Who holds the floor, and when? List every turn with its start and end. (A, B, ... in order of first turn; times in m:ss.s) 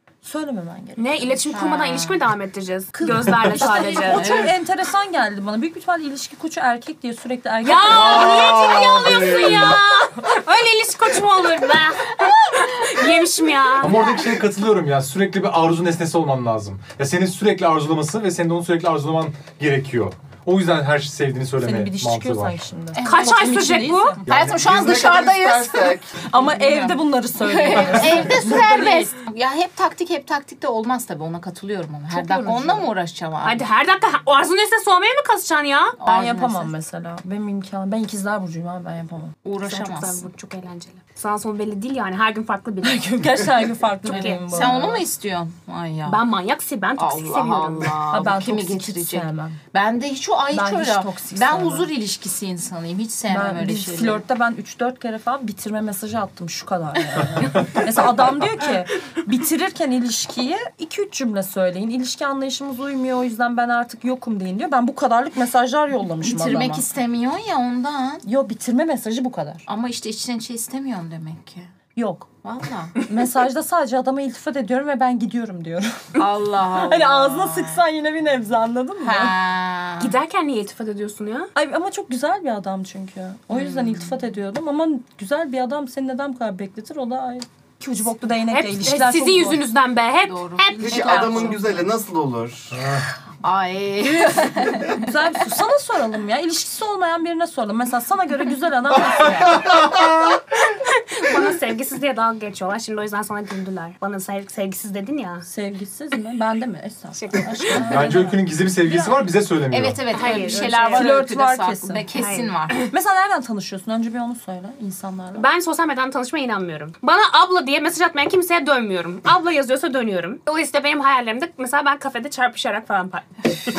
0:00.2-0:01.4 A
0:01.0-0:04.3 B
0:01.5-0:02.2 C
0:03.0-0:08.6 A
0:04.1-0:04.6 C
0:07.6-0:14.2 B
0:07.9-0:09.8 D
0:13.8-0:22.6 D
0:21.6-0:24.2 A
0:23.0-0:23.5 C
0:23.0-0:24.2 B
0:24.3-0:24.8 D
0:24.3-0:33.6 C
0:24.6-0:26.2 E
0:26.2-0:29.1 A
0:32.1-0:32.9 A
0:33.4-0:36.0 B
0:36.0-0:36.7 C
0:36.0-0:39.4 A
0:39.4-0:40.2 C
0:39.6-0:43.2 B
0:42.8-0:45.1 A
0:44.0-0:44.4 B
0:44.1-0:46.2 C
0:46.1-0:48.0 B
0:47.0-0:54.2 C
0:48.1-0:49.6 A
0:50.5-0:51.9 A
0:53.3-1:06.8 A
1:06.2-1:08.2 C
1:08.2-1:09.6 A
1:09.7-1:11.7 C
1:12.0-1:12.3 A
1:12.4-1:13.0 C
1:13.0-1:19.4 A
1:16.2-1:17.8 C
1:19.0-1:20.1 C
1:20.0-1:21.5 B
1:21.6-1:29.6 A
1:23.5-1:24.0 C
1:28.5-1:31.6 B
1:30.3-1:31.4 C
1:30.8-1:31.7 A
1:30.8-1:32.8 E
1:32.7-1:33.0 D
1:33.4-1:35.1 C
1:35.0-1:39.9 A
1:40.8-1:45.5 B
1:45.4-1:48.4 A
1:47.2-1:47.8 B
1:47.9-1:50.0 D
1:49.7-1:52.8 C
1:50.1-1:51.1 B
1:50.5-1:52.1 A
1:52.2-1:52.8 B
1:52.9-1:55.5 A
1:55.4-2:03.3 B